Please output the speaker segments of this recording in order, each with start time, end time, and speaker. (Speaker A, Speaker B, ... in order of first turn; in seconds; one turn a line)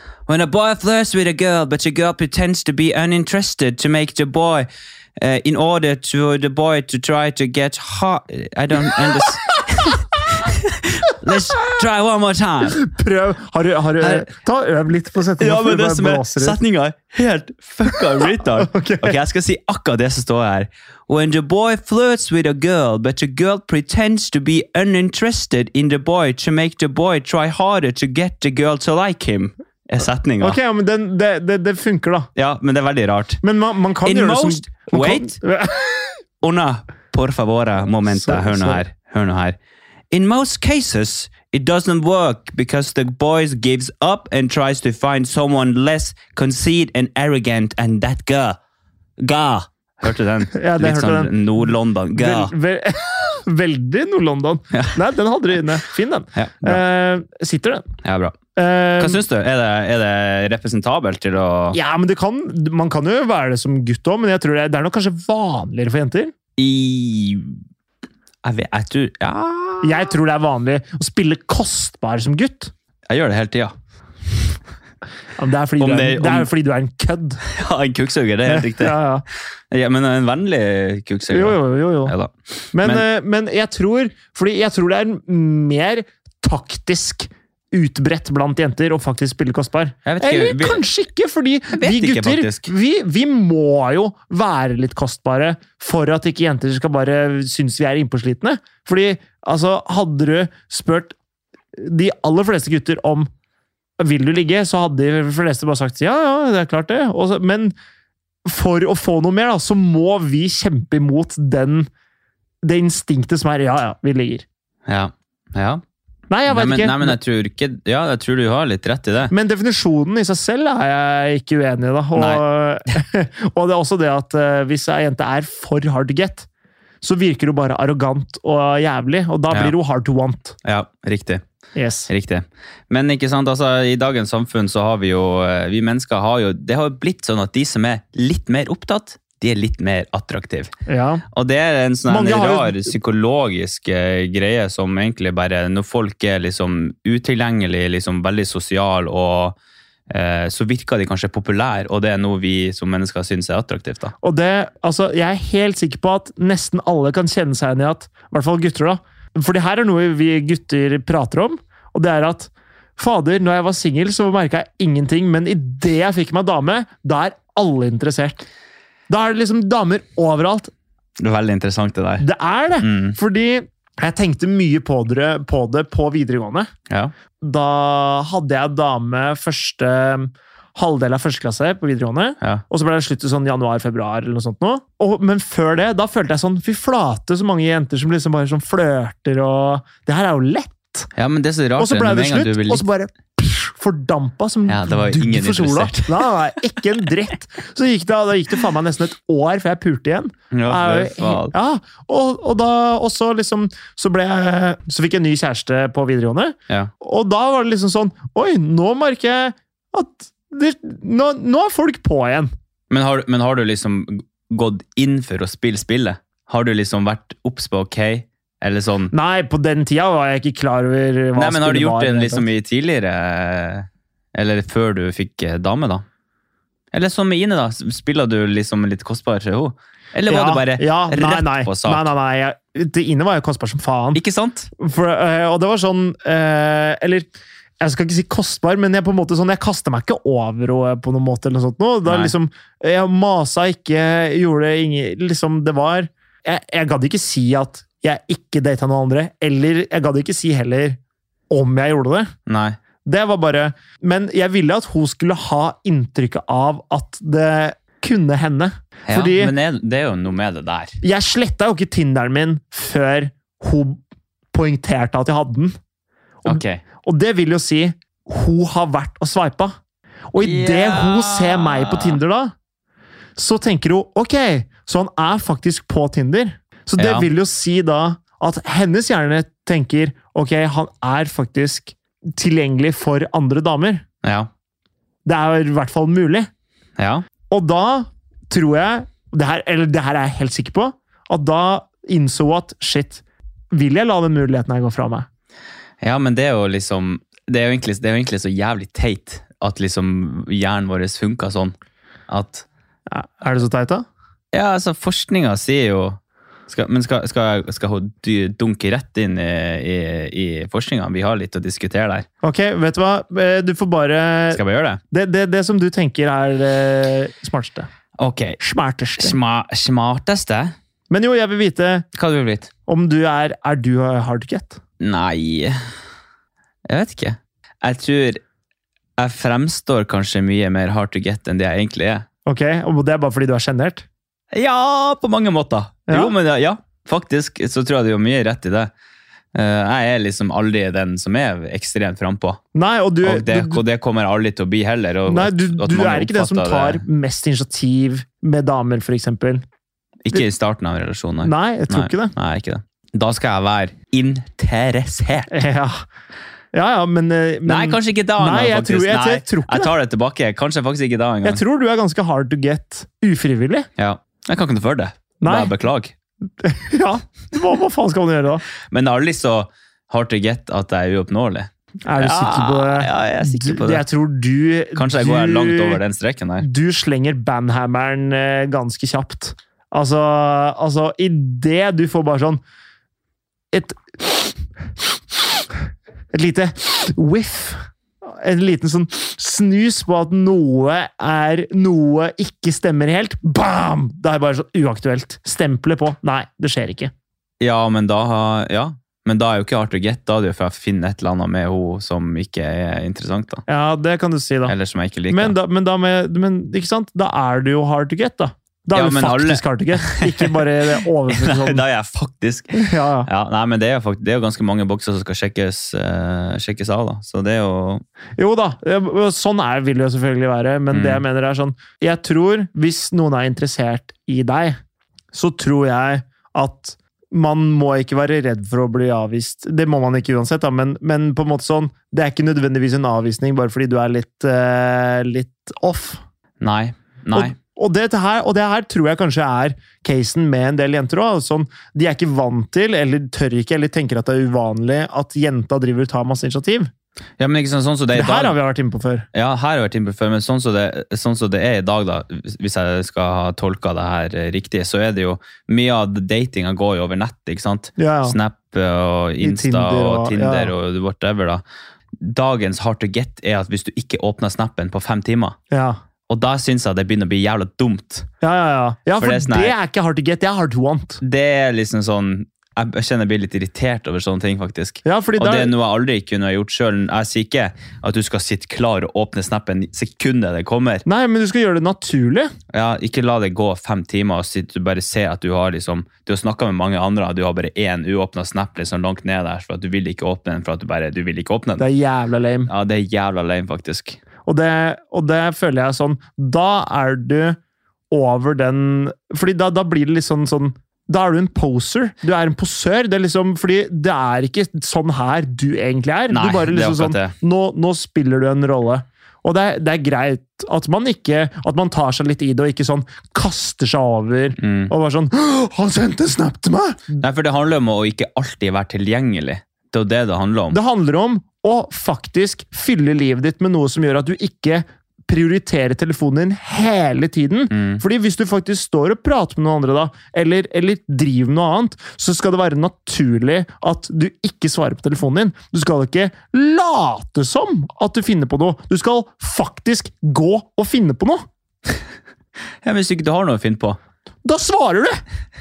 Speaker A: 0.3-12.8
Speaker B: 12.7-16.6
Speaker A: 14.0-14.2
Speaker A: 15.4-30.6
Speaker B: 18.6-19.2
Speaker B: 30.4-32.3
Speaker A: 32.4-33.4
Speaker B: 33.4-36.2
Speaker A: 34.0-35.4
Speaker A: 36.4-39.6
Speaker B: 38.1-38.8
Speaker A: 40.1-48.6
Speaker A: 49.2-52.5
Speaker B: 50.5-57.9
Speaker A: 56.3-56.8
Speaker A: 58.0-58.4
Speaker B: 58.6-59.2
Speaker A: 59.0-61.8
Speaker B: 61.7-66.3
Speaker A: 66.6-67.6
Speaker A: 68.4-70.1
Speaker B: 69.8-72.7
Speaker A: 73.1-73.7
Speaker B: 75.4-77.4
Speaker A: 75.8-76.5
Speaker A: 77.5-79.0
Speaker B: 78.5-79.2
Speaker A: 79.7-83.0
Speaker B: 81.3-82.2
Speaker B: 82.7-101.2
Speaker A: 90.1-90.8
Speaker A: 91.7-92.7
Speaker B: 101.8-103.3
Speaker B: 104.0-107.8
Speaker B: 108.5-111.9
Speaker B: 112.6-114.5
Speaker A: 114.9-115.8
Speaker B: 116.3-117.2
Speaker A: 116.5-119.3
Speaker B: 119.3-126.5
Speaker A: 122.2-122.4
Speaker B: 127.0-130.6
Speaker A: 129.5-129.8
Speaker A: 130.6-131.4
Speaker B: 131.8-132.1
Speaker A: 132.1-140.7
Speaker B: 140.9-141.2
Speaker A: 141.3-149.6
Speaker B: 142.1-142.9
Speaker A: 150.1-154.1
Speaker B: 154.2-168.4
Speaker B: 169.1-170.7
Speaker A: 171.2-172.2
Speaker B: 172.2-176.7
Speaker A: 172.8-173.2
Speaker B: 177.4-191.1
Speaker A: 191.2-192.8
Speaker B: 191.8-212.5
Speaker A: 194.7-196.2
Speaker A: 200.5-201.6
Speaker A: 212.9-219.1
Speaker B: 219.1-222.5
Speaker A: 221.4-226.0
Speaker A: 226.9-232.1
Speaker B: 230.3-234.2
Speaker A: 234.2-234.7
Speaker B: 234.8-237.3
Speaker B: 237.8-251.0
Speaker A: 242.1-242.3
Speaker B: 251.5-252.3
Speaker A: 252.5-252.8
Speaker B: 253.1-259.5
Speaker A: 259.1-261.0
Speaker B: 261.0-264.0
Speaker B: 264.5-265.8
Speaker B: 266.4-269.8
Speaker A: 266.5-266.8
Speaker B: 270.3-272.5
Speaker A: 270.4-272.2
Speaker B: 273.4-284.0
Speaker A: 277.0-277.3
Speaker A: 284.2-284.5
Speaker B: 285.2-286.5
Speaker A: 287.0-287.2
Speaker B: 287.5-295.3
Speaker A: 296.0-301.8
Speaker A: 302.3-302.6
Speaker B: 303.1-304.1
Speaker A: 304.5-312.3
Speaker B: 312.4-314.6
Speaker A: 314.5-315.0
Speaker B: 315.1-317.9
Speaker A: 318.2-318.6
Speaker B: 318.6-319.4
Speaker A: 319.2-320.8
Speaker B: 321.1-322.1
Speaker A: 322.1-322.7
Speaker B: 322.9-324.8
Speaker A: 325.0-325.8
Speaker A: 326.9-328.4
Speaker A: 329.2-332.3
Speaker B: 332.5-334.1
Speaker A: 334.5-338.9
Speaker B: 336.1-336.3
Speaker A: 339.5-342.6
Speaker B: 342.7-343.8
Speaker A: 343.2-347.0
Speaker B: 345.3-349.6
Speaker A: 350.2-355.5
Speaker B: 351.4-352.3
Speaker B: 355.5-356.0
Speaker B: 356.7-359.9
Speaker A: 357.6-361.6
Speaker B: 361.4-363.9
Speaker A: 364.0-366.1
Speaker B: 365.4-365.7
Speaker B: 366.6-368.6
Speaker A: 368.9-374.0
Speaker B: 372.1-376.0
Speaker A: 375.0-376.7
Speaker B: 376.6-382.6
Speaker B: 383.7-384.6
Speaker B: 386.3-397.1
Speaker A: 397.6-403.6
Speaker B: 403.7-404.7
Speaker A: 404.7-405.6
Speaker B: 405.3-411.8
Speaker A: 408.9-410.6
Speaker A: 411.3-418.0
Speaker B: 412.8-413.3
Speaker B: 418.4-424.8
Speaker A: 420.9-421.2
Speaker B: 425.3-436.2
Speaker A: 436.6-437.6
Speaker B: 437.3-446.9
Speaker A: 447.4-448.6
Speaker B: 448.1-449.3
Speaker A: 449.3-461.6
Speaker B: 458.0-458.4
Speaker B: 459.4-460.7
Speaker A: 462.2-465.6
Speaker B: 465.7-466.0
Speaker A: 466.3-468.3
Speaker B: 468.4-471.2
Speaker A: 469.2-469.8
Speaker A: 471.2-481.0
Speaker B: 475.1-475.7
Speaker B: 481.1-482.5
Speaker A: 482.7-491.9
Speaker B: 491.8-492.7
Speaker A: 492.7-494.2
Speaker B: 494.5-497.6
Speaker B: 498.1-517.2
Speaker A: 506.3-507.3
Speaker A: 514.6-514.9
Speaker A: 517.2-520.8
Speaker B: 520.7-541.4
Speaker A: 527.7-528.0
Speaker A: 542.8-544.0
Speaker B: 544.5-545.2